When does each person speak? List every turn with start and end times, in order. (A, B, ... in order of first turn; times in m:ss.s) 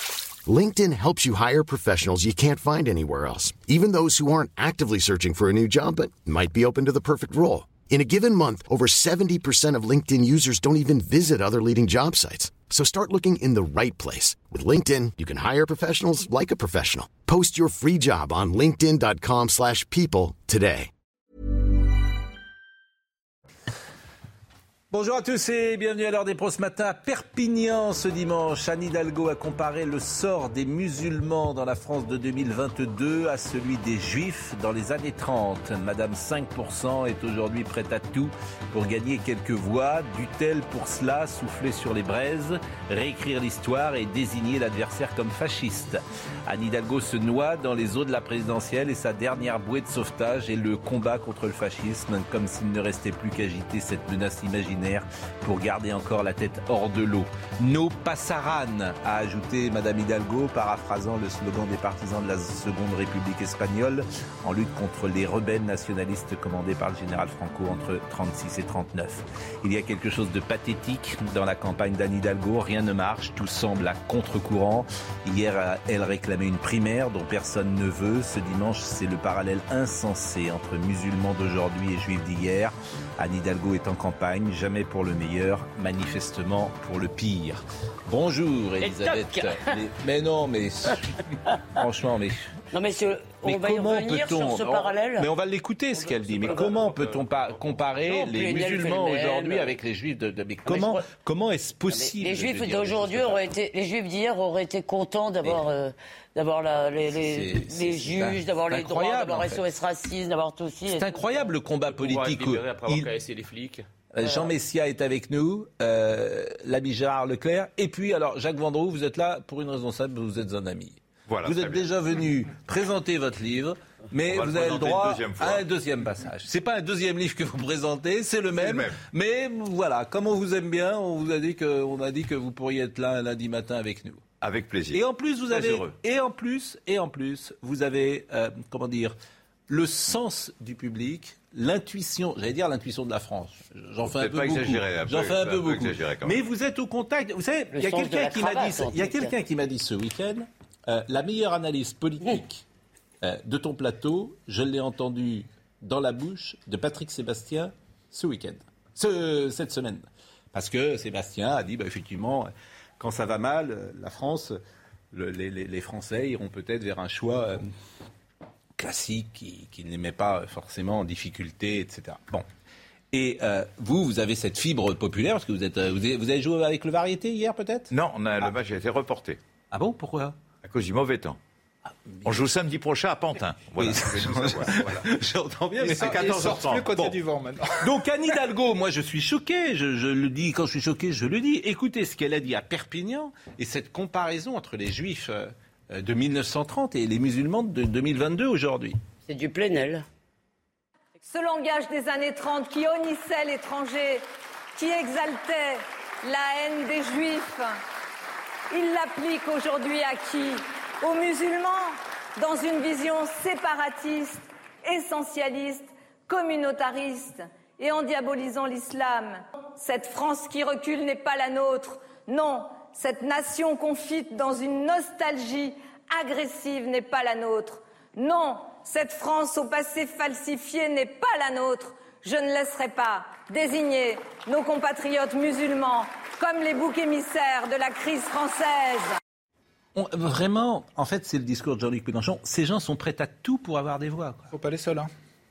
0:00.5-0:20.9 A
0:24.9-1:32.6 B
1:28.8-1:29.7 C
1:32.7-1:35.3 C
1:33.4-1:43.4 B
1:36.2-1:36.9 C
1:36.4-1:37.2 D
1:38.1-1:39.7 C
1:40.7-1:41.0 C
1:41.9-1:51.2 C
1:47.1-1:49.6 B
1:50.9-1:53.1 B
1:51.9-1:53.9 D
1:54.2-2:14.2 B
1:54.2-1:54.5 C
2:01.3-2:01.9 E
2:04.3-2:05.6 E
2:08.6-2:09.0 E
2:14.4-2:15.9 E
2:14.9-2:19.2 B
2:19.7-2:32.6 B
2:24.1-2:26.4 E
2:27.7-2:29.4 C
2:33.2-2:44.6 B
2:45.1-2:47.6 B
2:48.8-2:52.4 B
2:53.1-2:57.9 B
2:57.9-2:59.4 E
2:59.7-3:00.4 B
3:00.6-3:01.4 E
3:02.2-3:05.0 E
3:03.8-3:06.4 B
3:05.8-3:07.9 F
3:05.8-3:07.2 E
3:07.8-3:19.0 B
3:19.3-3:20.0 C
3:21.2-3:24.2 G
3:24.8-3:27.8 G
3:28.7-3:59.2 G
4:00.0-4:04.5 B
4:04.5-4:05.1 F